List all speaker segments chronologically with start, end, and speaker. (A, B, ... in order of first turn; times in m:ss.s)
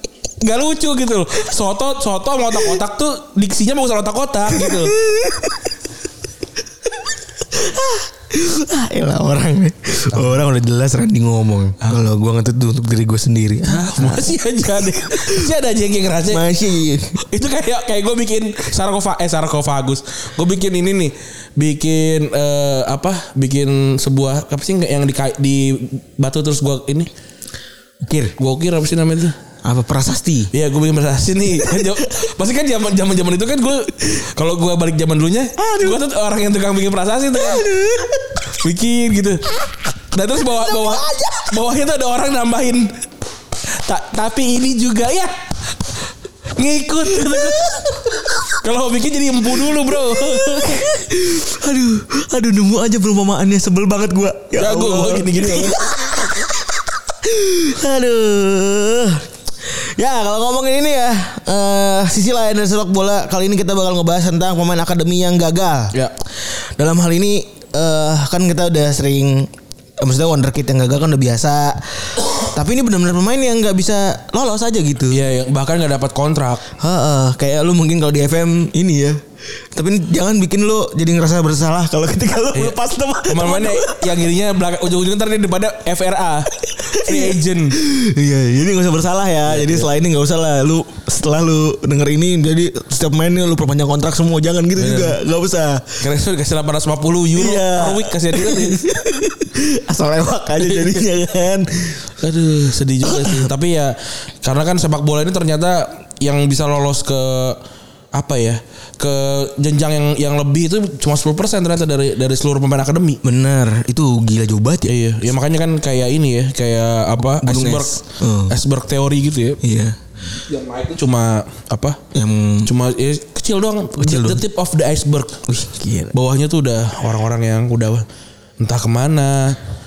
0:00.4-0:05.0 A
0:04.5-0:05.7 B
0:07.4-0:15.5 B
0:13.6-0:16.4 A
0:16.3-0:17.2 B
0:17.2-0:27.1 A
0:28.0-0:28.3 B
0:28.4-0:29.3 A
0:29.6-0:30.5 B
0:30.5-0:37.7 A
0:31.6-0:32.0 B
0:35.6-0:36.0 B
0:37.3-0:38.4 B
0:38.4-0:39.5 A
0:40.1-0:43.0 A
0:40.4-0:41.6 B
0:43.8-0:45.4 A
0:46.6-0:47.8 A
0:47.1-0:48.2 B
0:48.6-0:50.9 A
0:49.8-1:15.2 B
0:54.6-0:55.8 A
1:15.1-1:16.7 A
1:16.8-1:24.2 B
1:22.5-1:27.8 A
1:26.8-1:36.0 B
1:29.4-1:29.9 A
1:34.8-1:35.2 A
1:36.0-1:38.8 A
1:37.3-1:42.0 B
1:40.6-1:41.0 A
1:42.2-1:47.6 A
1:43.0-1:43.5 B
1:48.1-1:53.2 A
1:53.2-1:54.9 B
1:54.9-1:59.6 A
1:57.3-1:58.6 B
1:59.6-2:00.0 B
2:00.3-2:02.0 A
2:02.1-2:02.7 B
2:02.6-2:05.4 A
2:04.0-2:04.4 B
2:05.5-2:06.1 B
2:06.1-2:08.0 A
2:08.6-2:09.6 A